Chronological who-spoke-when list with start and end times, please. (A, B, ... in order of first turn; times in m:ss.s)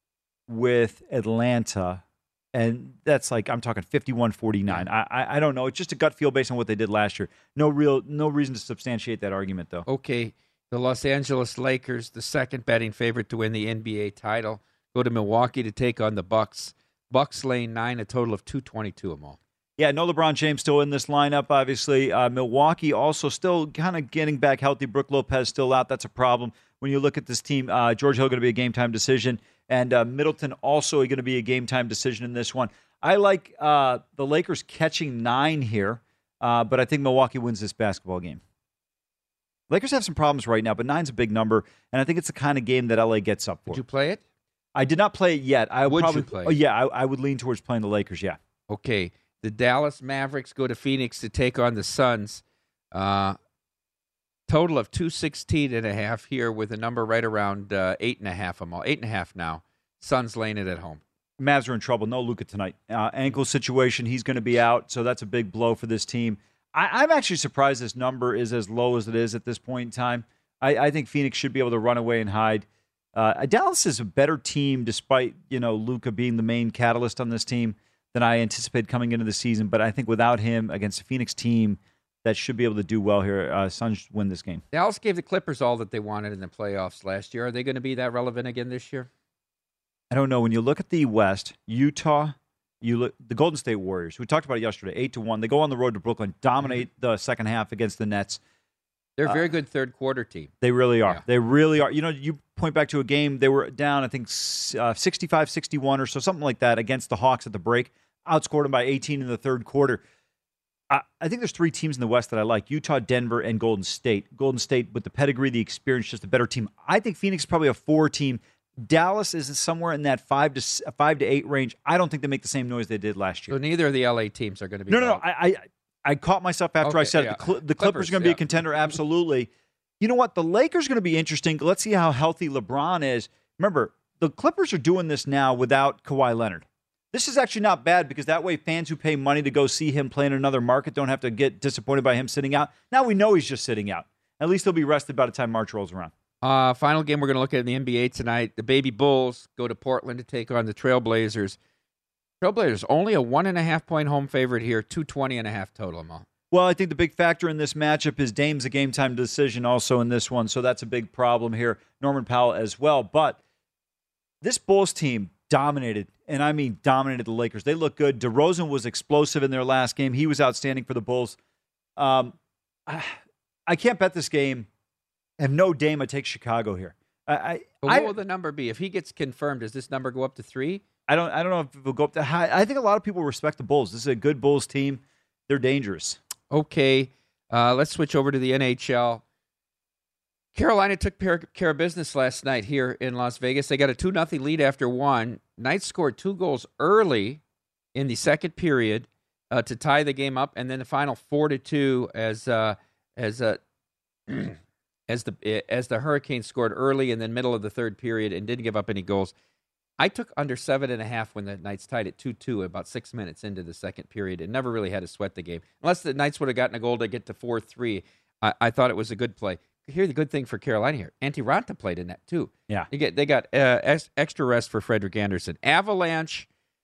0:00.5-0:02.0 A
0:02.5-0:09.8 A
0:09.9-0:19.4 B
0:19.8-0:38.4 A
0:39.7-0:43.8 A
0:43.7-0:44.2 B
0:44.8-0:48.4 A
0:45.9-0:46.6 B
0:48.7-0:53.4 B
0:54.5-1:01.0 B
1:01.4-1:24.6 A
1:24.7-1:29.1 B
1:30.1-1:38.4 A
1:39.2-1:40.5 B
1:40.6-1:50.0 A
1:50.9-2:03.6 A
2:03.5-2:05.2 B
2:04.9-2:26.1 A
2:06.8-2:08.9 B
2:26.4-2:31.6 B
2:32.4-2:36.2 B
2:36.5-2:43.4 A
2:44.4-2:51.4 A
2:52.0-2:52.4 A
2:52.9-2:54.7 A
2:55.4-2:58.1 A
2:57.8-3:00.8 B
3:01.1-3:06.2 A
3:06.5-3:09.2 B
3:10.5-3:17.4 B
3:18.0-3:23.6 B
3:24.3-3:29.3 B
3:30.0-3:46.5 B